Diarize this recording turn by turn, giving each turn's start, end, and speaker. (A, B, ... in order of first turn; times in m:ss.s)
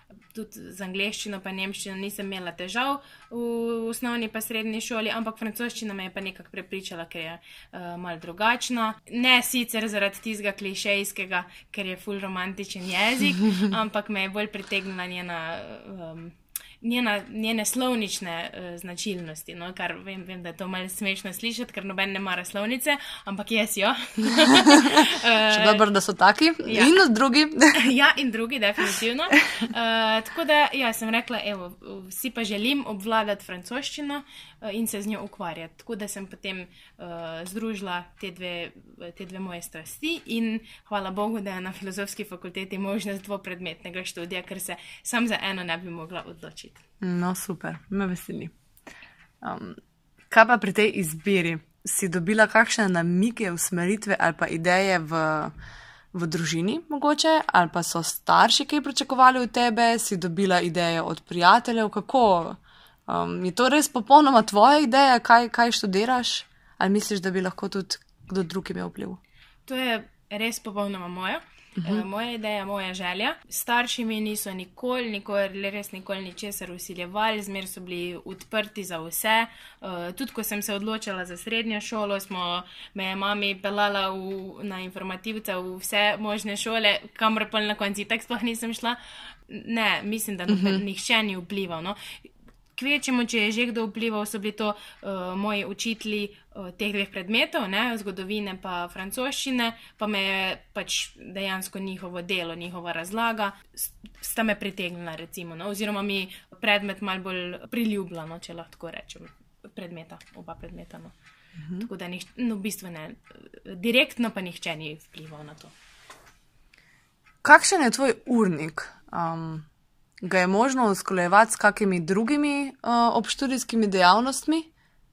0:00.3-0:25.8 A
0:25.5-0:27.8 B
0:26.6-0:26.9 A
0:27.8-0:46.8 A
0:47.0-0:48.5 B
0:49.4-0:49.8 B
0:50.3-0:55.5 B
0:56.1-1:09.2 B
1:09.7-1:32.0 A
1:11.8-1:12.0 B
1:30.5-1:30.8 B
1:32.8-1:51.1 A
1:51.8-1:55.7 A
1:57.4-1:59.6 B
2:00.2-2:04.7 B